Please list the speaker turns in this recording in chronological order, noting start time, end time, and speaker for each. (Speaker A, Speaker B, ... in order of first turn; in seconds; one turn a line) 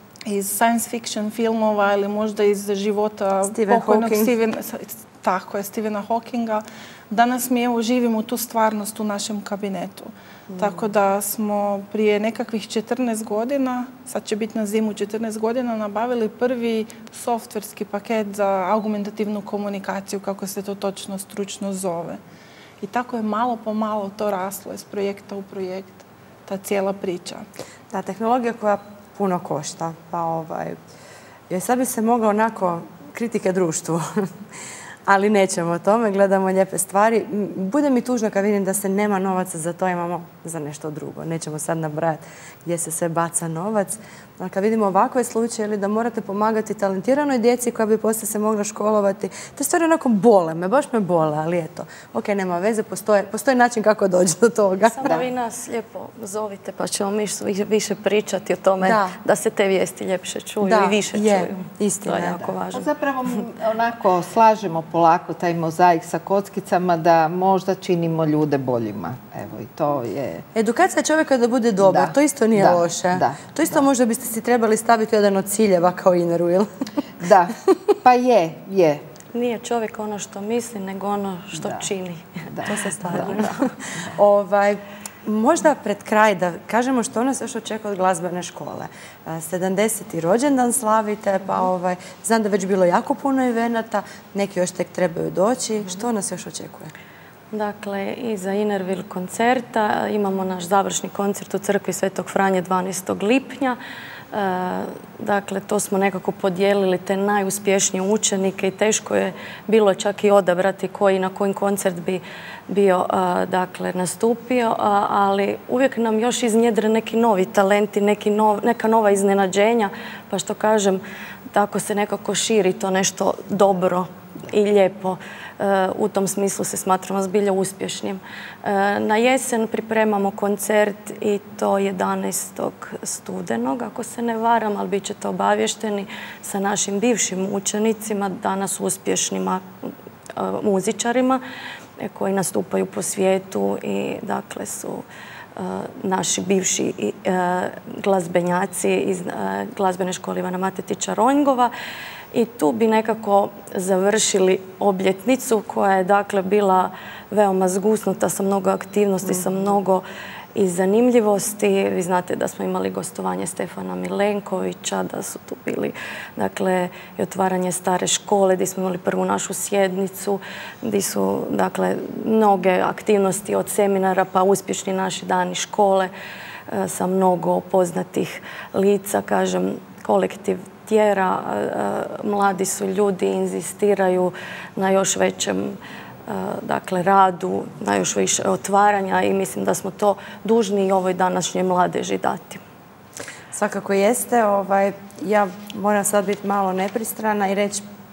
Speaker A: 0.2-22.2
Speaker B: 3.5-4.3
Speaker A: 22.8-27.4
Speaker B: 27.9-30.8
Speaker B: 31.5-34.3
Speaker B: 35.0-55.1
Speaker C: 54.8-62.9
Speaker B: 58.8-59.1
Speaker B: 60.6-62.5
Speaker D: 62.7-70.4
Speaker B: 70.5-76.7
Speaker D: 71.8-73.9
Speaker D: 77.2-79.0
Speaker C: 79.3-82.3
Speaker D: 81.5-81.9
Speaker D: 82.5-83.5
Speaker B: 82.6-96.9
Speaker C: 83.1-83.7
Speaker C: 97.5-103.8
Speaker C: 104.3-121.0
Speaker C: 121.5-141.4
Speaker C: 142.0-145.0
Speaker C: 145.6-151.7
Speaker C: 152.3-160.0
Speaker C: 160.5-176.1
Speaker C: 176.7-192.6
Speaker B: 193.5-197.8